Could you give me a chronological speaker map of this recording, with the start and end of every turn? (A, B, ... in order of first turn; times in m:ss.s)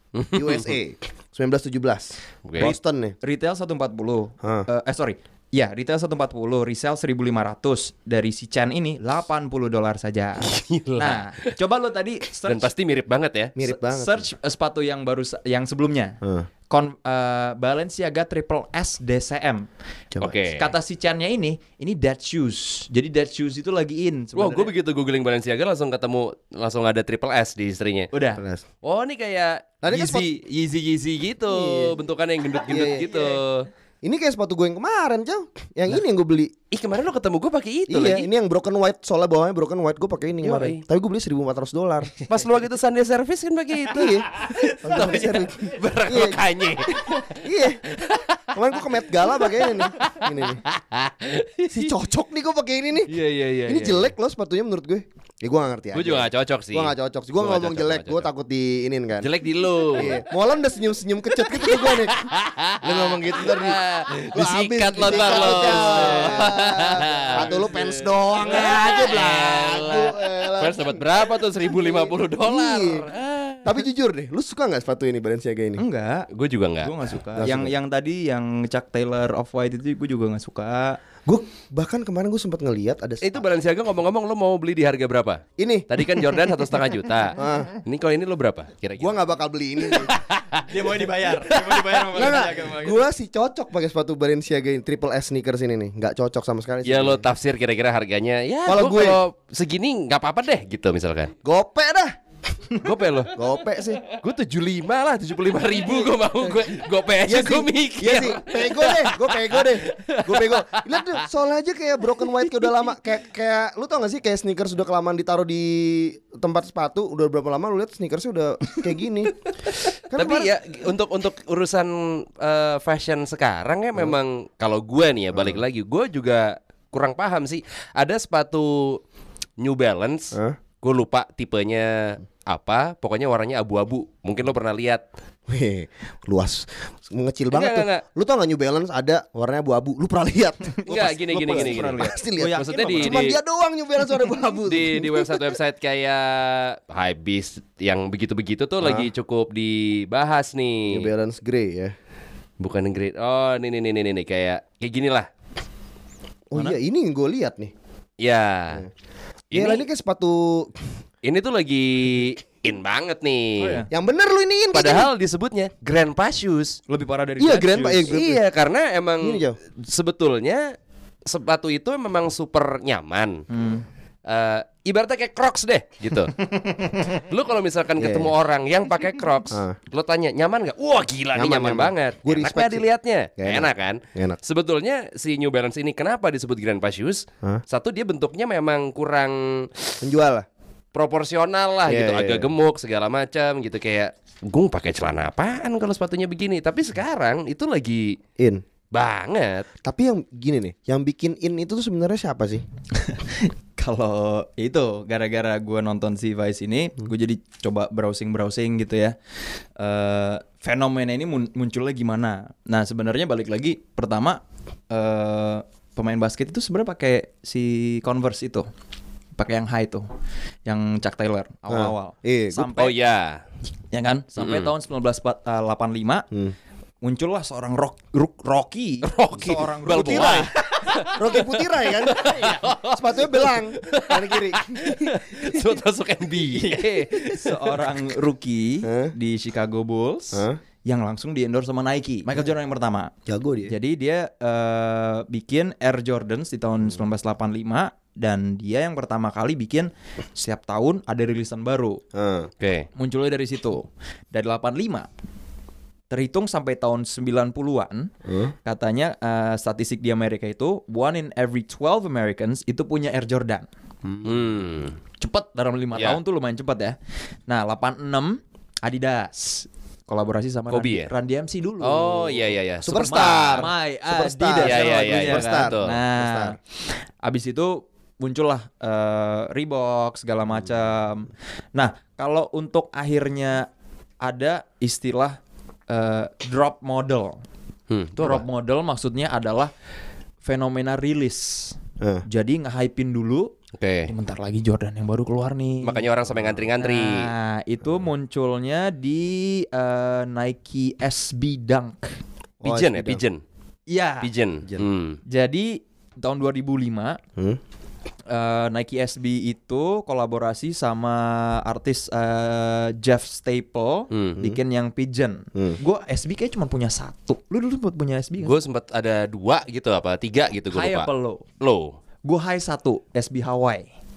0:00.2-0:00.7 A
0:00.3-0:03.2 B
0:02.5-0:02.7 A
0:02.6-0:12.7 C
0:04.4-0:04.7 B
0:10.4-0:11.5 A
0:12.4-0:13.6 A
0:13.6-0:14.3 B
0:13.6-0:16.2 C
0:16.2-0:16.5 B
0:16.7-0:19.6 C
0:20.2-0:20.7 A
0:20.5-0:24.7 C
0:24.4-0:28.1 A
0:28.1-0:28.4 C
0:28.4-0:28.6 B
0:28.8-0:30.2 A
0:29.8-0:30.3 B
0:29.9-0:30.9 C
0:30.8-0:33.7 A
0:31.5-0:32.0 B
0:32.7-0:33.3 B
0:34.0-0:36.5 B
0:36.7-0:38.3 A
0:37.9-0:42.2 B
0:40.4-0:40.8 A
0:42.2-0:48.6 A
0:43.8-0:44.3 B
0:44.8-0:48.0 B
0:48.5-0:50.6 B
0:49.3-0:51.9 A
0:51.7-0:53.1 B
0:53.1-0:54.1 A
0:53.7-0:59.3 B
0:55.9-0:58.3 A
0:59.2-1:00.2 A
0:59.9-1:02.2 B
1:01.4-1:13.8 A
1:02.8-1:13.1 B
1:05.1-1:06.5 C
1:13.6-1:15.8 B
1:15.8-1:16.3 C
1:16.3-1:16.9 A
1:16.8-1:21.0 C
1:17.4-1:17.7 B
1:21.3-1:23.4 B
1:23.2-1:29.2 A
1:25.6-1:26.4 B
1:27.4-1:27.7 B
1:29.0-1:30.1 B
1:29.8-1:30.8 A
1:30.7-1:33.0 C
1:31.4-1:32.4 A
1:32.1-1:37.3 B
1:36.8-1:41.3 A
1:38.7-1:39.2 B
1:41.4-1:42.2 B
1:42.8-1:43.3 A
1:43.3-1:44.0 B
1:44.1-1:51.2 A
1:45.8-1:46.7 B
1:47.2-1:59.4 B
1:52.4-1:52.8 A
2:00.1-2:00.5 B
2:00.1-2:09.0 A
2:05.3-2:05.6 B
2:09.6-2:15.0 A
2:10.3-2:10.6 B
2:15.5-2:25.5 B
2:17.5-2:18.0 A
2:20.9-2:23.4 A
2:20.9-2:23.2 C
2:24.6-2:31.1 A
2:28.8-2:29.1 B
2:30.9-2:31.9 B
2:32.6-2:35.3 A
2:36.5-2:37.7 B
2:38.2-2:38.8 A
2:39.5-2:39.9 A
2:39.5-2:40.8 B
2:41.2-2:43.8 A
2:43.6-2:43.9 C
2:43.9-2:45.1 B
2:44.7-2:46.8 A
2:46.9-2:48.2 C
2:47.4-2:48.4 B
2:48.1-2:53.5 A
2:49.2-2:49.6 B
2:53.5-2:53.8 C
2:54.3-2:56.4 A
2:56.4-2:57.0 C
2:57.2-3:10.0 A
2:58.0-2:58.3 B
2:59.5-2:59.8 B
3:01.4-3:02.9 B
3:03.4-3:04.4 B
3:10.0-3:10.5 B
3:10.9-3:18.2 A
3:11.9-3:12.5 B
3:18.4-3:18.6 B
3:18.9-3:19.7 A
3:19.8-3:22.6 B
3:23.0-3:29.2 C
3:29.8-3:34.4 C
3:34.9-3:38.7 C
3:39.4-3:40.0 C
3:40.7-3:43.0 C
3:41.7-3:42.7 B
3:42.8-3:43.4 A
3:43.9-3:46.3 C
3:44.4-3:44.7 A
3:47.0-3:51.1 C
3:49.0-3:57.8 A
3:49.9-3:50.5 B
3:51.1-3:55.5 B
3:56.6-4:03.1 C
3:58.8-3:59.1 B
4:00.3-4:00.6 B
4:03.3-4:03.7 B
4:03.7-4:12.0 C
4:12.1-4:12.5 B
4:12.6-4:12.9 A
4:13.0-4:15.1 C
4:16.1-4:18.1 C
4:18.3-4:18.5 B
4:18.6-4:23.7 C
4:24.0-4:24.3 B
4:24.2-4:25.0 A
4:25.2-4:27.0 C
4:27.5-4:36.6 C
4:30.7-4:31.1 A
4:31.8-4:33.7 A
4:32.8-4:36.6 B
4:34.6-4:36.0 A
4:37.2-4:43.7 C
4:44.2-4:45.4 C
4:45.9-4:47.4 C
4:47.9-4:48.4 A
4:48.2-4:49.7 C
4:50.4-4:53.5 C
4:52.0-4:52.2 B
4:53.8-4:54.1 A
4:54.1-4:56.0 C
4:55.8-4:57.3 A
4:56.8-5:02.2 C
5:02.6-5:03.2 B
5:02.6-5:03.4 A
5:03.9-5:04.3 C
5:04.2-5:05.2 A
5:05.3-5:07.2 C
5:08.3-5:18.6 C
5:14.1-5:14.4 A
5:18.4-5:21.1 A
5:20.7-5:21.4 C
5:21.6-5:22.0 A
5:22.2-5:23.9 C